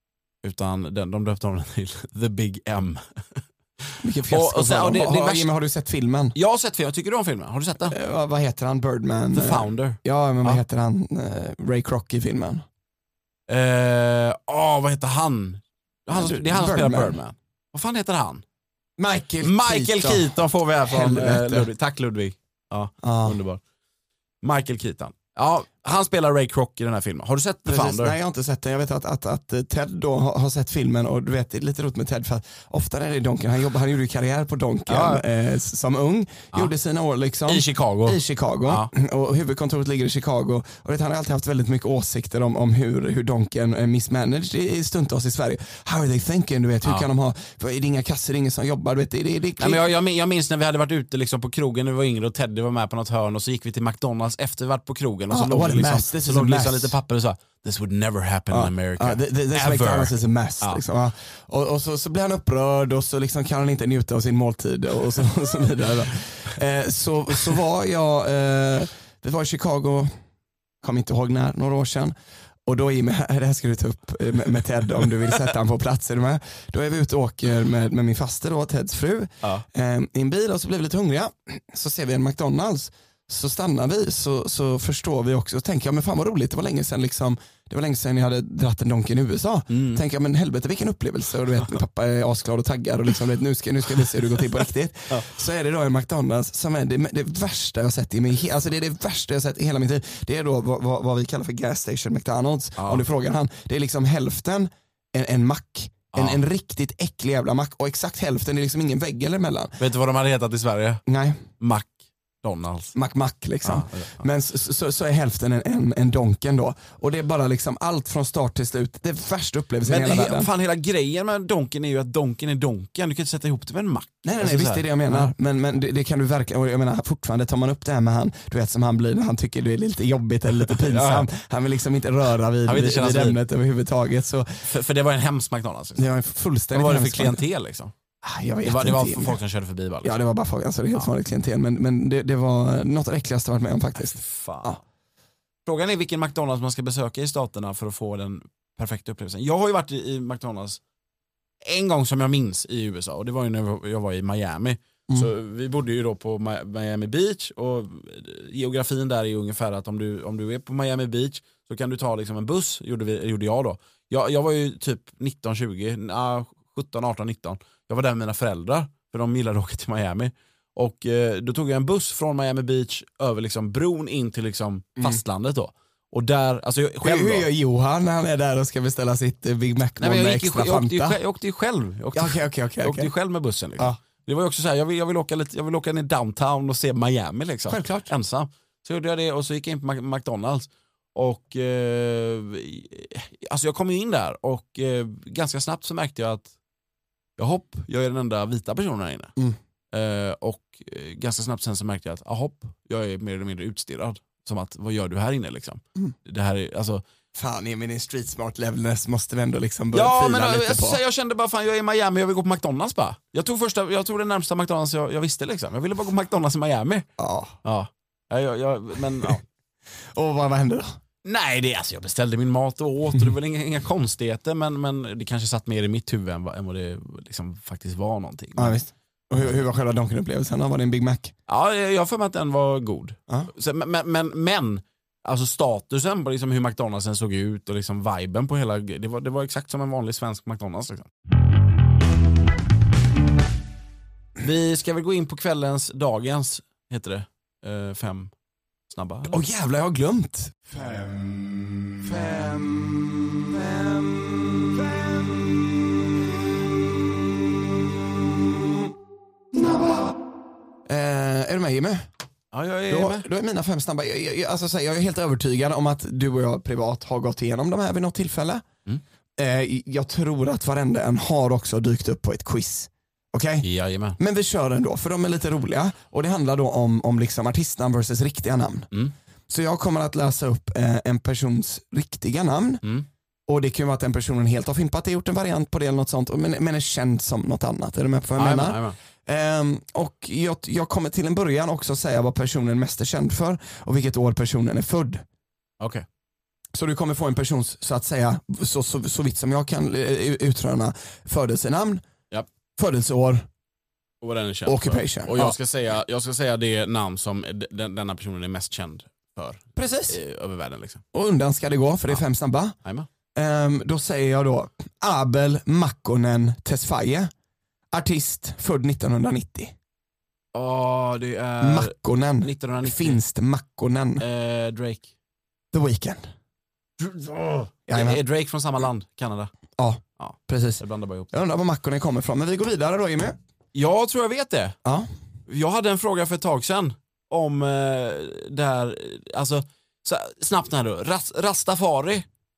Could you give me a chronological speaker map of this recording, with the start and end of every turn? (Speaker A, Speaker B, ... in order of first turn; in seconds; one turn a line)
Speaker A: 0.4-3.4
Speaker B: 4.0-6.3
Speaker A: 4.3-5.5
Speaker A: 6.3-7.9
Speaker B: 7.9-12.6
Speaker A: 9.3-10.6
Speaker A: 13.5-18.4
Speaker B: 16.1-17.2
Speaker B: 19.0-20.3
Speaker A: 19.4-23.6
Speaker B: 20.9-21.7
Speaker B: 23.0-23.4
Speaker A: 24.4-28.1
Speaker B: 27.6-49.9
Speaker A: 34.9-35.2
Speaker A: 37.5-38.9
Speaker A: 46.8-47.1
Speaker A: 49.6-60.8
Speaker B: 55.3-56.9
Speaker B: 58.5-70.1
Speaker B: 70.8-72.1
Speaker B: 72.7-109.8
Speaker A: 89.7-90.0
Speaker A: 102.8-103.0
Speaker A: 106.1-106.4
Speaker A: 109.8-111.0
Speaker B: 111.0-111.4
Speaker A: 111.6-112.9
Speaker B: 112.9-120.5
Speaker A: 113.6-114.2
Speaker A: 119.8-125.3
Speaker B: 124.2-134.7
Speaker A: 130.7-131.3
Speaker A: 132.6-133.4
Speaker A: 134.6-136.0
Speaker B: 135.9-137.4
Speaker A: 136.7-137.9
Speaker B: 138.2-139.4
Speaker A: 138.6-140.2
Speaker B: 140.0-144.8
Speaker A: 144.0-144.8
Speaker A: 145.6-150.8
Speaker A: 151.6-177.5
Speaker B: 177.0-181.2
Speaker A: 180.0-196.5
Speaker B: 182.1-183.1
Speaker B: 187.7-188.1
Speaker A: 197.4-199.3
Speaker A: 199.9-207.0
Speaker B: 207.3-211.0
Speaker A: 209.9-217.1
Speaker B: 217.2-217.6
Speaker A: 217.6-219.4
Speaker B: 220.1-220.9
Speaker A: 221.2-228.8
Speaker B: 228.6-231.3
Speaker A: 231.5-241.1
Speaker A: 244.4-248.3
Speaker A: 248.9-249.4
Speaker B: 249.3-255.7
Speaker B: 259.5-260.1
Speaker B: 260.9-262.1
Speaker A: 262.5-263.3
Speaker B: 262.9-268.6
Speaker B: 269.4-273.7
Speaker A: 273.6-274.2
Speaker B: 274.2-278.9
Speaker B: 279.5-282.8
Speaker B: 283.5-295.2
Speaker A: 288.4-289.0
Speaker A: 295.8-296.1
Speaker B: 296.7-302.0
Speaker B: 302.8-303.5
Speaker A: 304.2-311.0
Speaker B: 304.6-305.5
Speaker B: 309.8-310.2
Speaker B: 311.1-312.8
Speaker A: 312.8-313.1
Speaker B: 313.3-317.3
Speaker B: 317.9-319.7
Speaker A: 320.5-323.2
Speaker B: 321.6-324.2
Speaker A: 324.2-325.1
Speaker B: 325.7-326.2
Speaker A: 327.0-329.5
Speaker B: 327.9-328.2
Speaker B: 329.8-333.4
Speaker A: 330.2-331.3
Speaker A: 333.7-334.8
Speaker A: 335.5-342.2